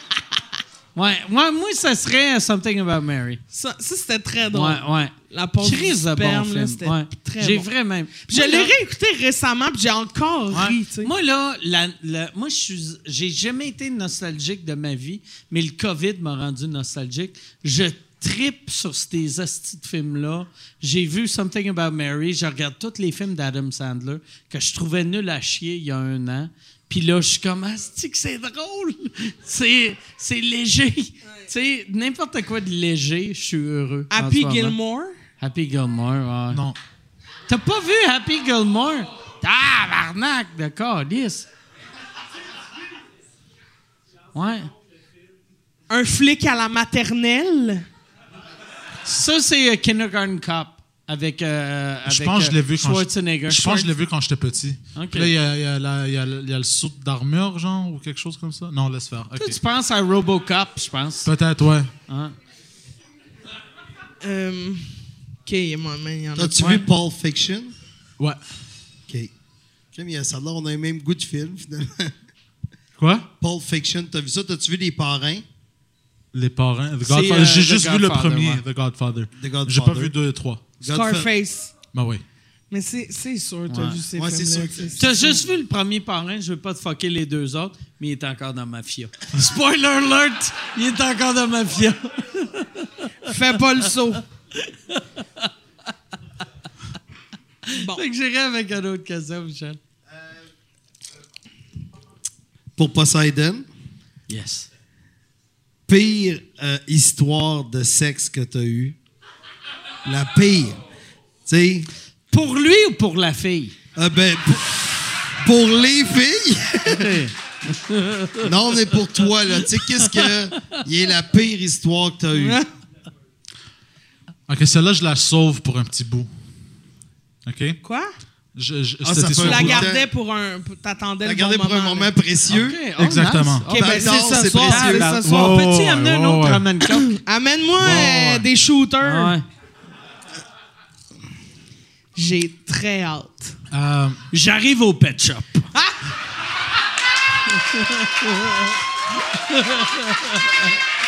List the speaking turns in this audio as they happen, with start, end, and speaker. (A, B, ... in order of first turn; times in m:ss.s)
0:00.9-0:03.4 A
0:03.5-0:07.7 B
0:04.5-0:08.7 A
0:08.3-0:11.1 B
0:10.5-0:34.8 A
0:34.1-0:35.1 B
0:35.4-0:36.6 A
0:36.5-0:36.8 C
0:37.5-0:41.4 A
0:44.3-0:44.7 A
0:45.9-0:47.8 B
0:49.0-0:53.8 A
0:52.0-0:59.6 C
0:54.9-0:55.3 A
0:59.3-1:01.3 A
1:01.2-1:01.9 C
1:02.1-1:02.3 A
1:04.2-1:06.9 B
1:06.4-1:07.7 D
1:09.9-1:12.2 D
1:13.0-1:13.3 C
1:13.4-1:15.4 D
1:16.3-1:20.6 C
1:17.0-1:18.6 A
1:19.4-1:20.1 D
1:20.8-1:21.3 D
1:20.8-1:21.7 B
1:21.9-1:22.2 C
1:22.7-1:25.4 B
1:23.7-1:24.0 A
1:24.1-1:25.1 D
1:25.0-1:33.0 A
1:33.2-1:34.2 B
1:34.6-1:35.5 A
1:37.6-1:39.8 A
1:37.7-1:38.0 B
1:42.8-1:43.6 D
1:44.3-1:44.7 A
1:45.9-1:49.0 D
1:50.0-1:50.8 D
1:51.4-1:51.9 D
1:52.3-1:53.7 A
1:54.0-1:57.2 D
1:56.8-1:58.5 A
1:58.4-2:02.6 D
2:02.3-2:02.7 B
2:04.5-2:06.3 C
2:07.4-2:07.8 C
2:07.8-2:08.1 B
2:08.5-2:09.9 C
2:09.0-2:10.0 D
2:09.3-2:12.1 B
2:11.2-2:12.8 D
2:12.5-2:17.1 A
2:13.0-2:13.7 C
2:13.7-2:15.7 B
2:13.7-2:15.2 D
2:15.2-2:16.6 C
2:16.9-2:19.4 B
2:17.8-2:18.5 C
2:19.0-2:19.4 A
2:22.2-2:23.5 B
2:23.7-2:24.2 C
2:24.3-2:25.7 A
2:27.9-2:28.6 A
2:29.3-2:30.4 A